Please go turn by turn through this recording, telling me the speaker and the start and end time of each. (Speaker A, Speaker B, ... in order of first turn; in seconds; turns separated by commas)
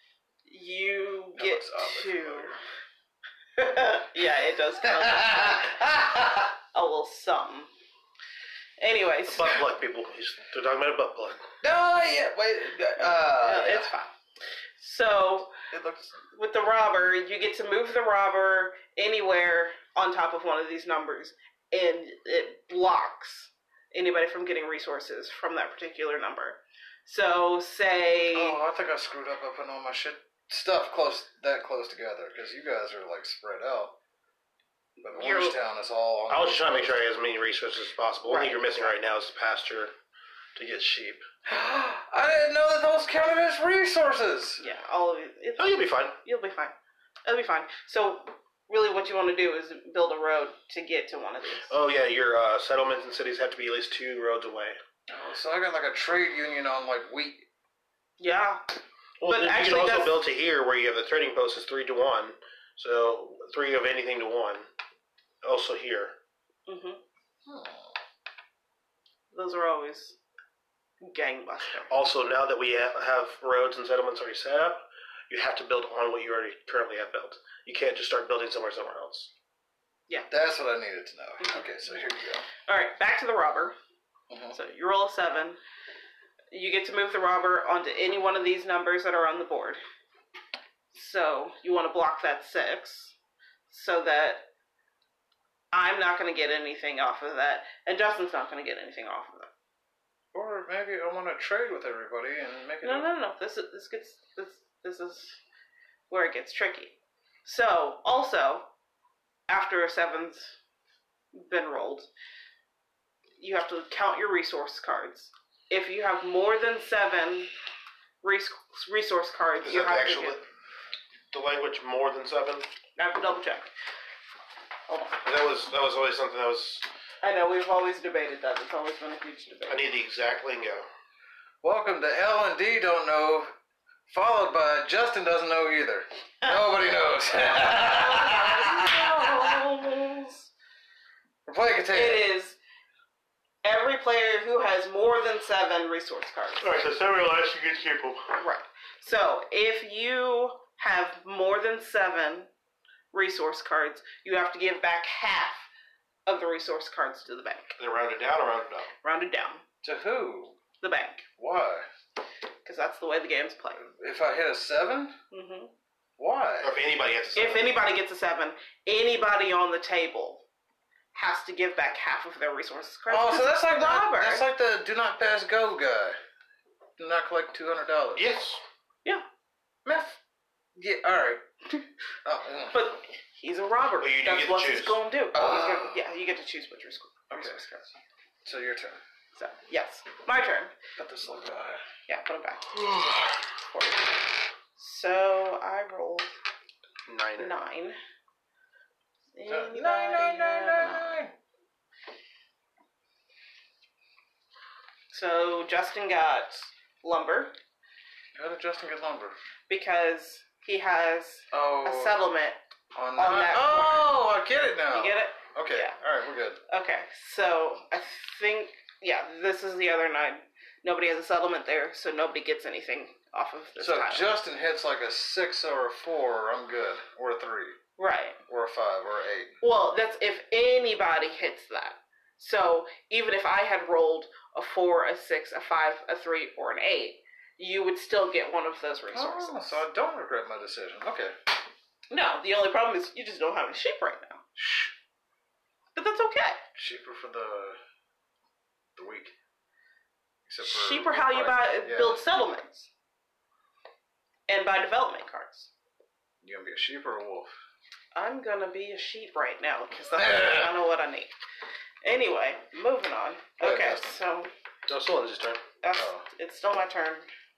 Speaker A: 0.5-2.6, Speaker B: 1.4-2.6, Speaker A: 3.6-7.7, Speaker B: 4.8-6.5, Speaker A: 8.8-9.6, Speaker C: 9.3-11.4, Speaker B: 11.6-13.9, Speaker A: 13.4-14.1, Speaker A: 14.8-15.6, Speaker B: 15.7-16.2, Speaker A: 16.2-28.6, Speaker B: 28.3-34.0, Speaker A: 35.0-35.6, Speaker B: 35.0-37.0, Speaker C: 36.3-39.9, Speaker A: 38.2-39.1, Speaker C: 40.5-41.2, Speaker B: 41.5-44.6, Speaker A: 44.6-46.7, Speaker C: 45.6-46.2, Speaker A: 47.2-51.7, Speaker C: 51.7-54.8, Speaker B: 55.1-57.5, Speaker A: 58.2-60.2, Speaker C: 59.2-64.7, Speaker C: 65.4-66.2, Speaker A: 66.7-67.0, Speaker B: 67.5-67.9, Speaker A: 69.3-70.2, Speaker A: 71.0-71.9, Speaker C: 71.9-79.3, Speaker B: 80.3-82.5, Speaker A: 81.4-81.7, Speaker A: 82.7-83.8, Speaker B: 84.3-84.6, Speaker A: 84.5-85.6, Speaker A: 86.5-89.8, Speaker A: 90.9-93.2, Speaker A: 93.7-94.5, Speaker A: 95.7-99.5, Speaker B: 100.3-103.1, Speaker A: 102.8-105.4, Speaker A: 106.1-108.7, Speaker A: 109.5-110.6, Speaker A: 111.3-112.1, Speaker A: 113.4-117.5, Speaker A: 118.2-120.4, Speaker C: 119.6-120.4, Speaker C: 121.3-122.7, Speaker A: 123.0-123.7, Speaker A: 124.9-125.2, Speaker C: 125.2-126.9, Speaker A: 127.2-129.9, Speaker C: 129.7-130.9, Speaker B: 131.6-133.5, Speaker B: 134.1-139.6, Speaker A: 137.3-140.5, Speaker B: 141.5-142.3, Speaker A: 141.9-142.6, Speaker A: 143.6-146.8, Speaker C: 146.6-148.3, Speaker A: 148.3-152.5, Speaker A: 153.1-155.7, Speaker A: 156.3-157.8, Speaker C: 157.8-158.9, Speaker A: 159.0-159.6, Speaker B: 159.8-160.6, Speaker A: 160.8-161.2, Speaker B: 161.4-161.9, Speaker A: 162.6-163.8, Speaker B: 163.8-165.1, Speaker A: 165.3-165.7, Speaker B: 166.2-166.8, Speaker C: 166.6-167.7, Speaker A: 167.4-170.4, Speaker A: 171.1-174.4, Speaker B: 173.1-176.2, Speaker B: 177.0-178.3, Speaker C: 178.2-178.6, Speaker B: 179.8-180.2, Speaker B: 180.8-181.4, Speaker B: 182.2-182.8, Speaker A: 182.7-187.9, Speaker C: 184.0-185.0, Speaker B: 185.3-186.0, Speaker B: 187.3-189.0, Speaker A: 189.3-190.7, Speaker B: 191.0-191.8, Speaker A: 192.1-192.9, Speaker A: 193.7-196.3, Speaker C: 197.1-197.6, Speaker A: 197.4-198.0, Speaker A: 199.3-201.2, Speaker B: 199.4-201.3, Speaker A: 205.1-207.6, Speaker B: 208.4-209.4, Speaker A: 209.7-212.6, Speaker B: 211.5-212.2, Speaker B: 212.9-216.6, Speaker A: 213.2-214.2, Speaker A: 214.9-216.0, Speaker A: 216.7-224.3, Speaker B: 223.8-227.8, Speaker A: 228.0-228.4, Speaker B: 228.5-229.5, Speaker A: 229.6-239.8, Speaker B: 239.1-241.3, Speaker A: 242.1-244.4, Speaker B: 244.6-244.9, Speaker A: 245.9-246.6, Speaker B: 246.8-247.8, Speaker B: 248.9-249.3, Speaker B: 250.4-252.2, Speaker A: 250.6-252.9, Speaker A: 254.5-255.7, Speaker B: 256.4-257.6, Speaker A: 258.1-261.3, Speaker B: 260.2-260.7, Speaker A: 262.0-264.5, Speaker B: 263.6-264.1, Speaker C: 264.9-265.6, Speaker A: 265.8-267.3, Speaker B: 265.9-266.2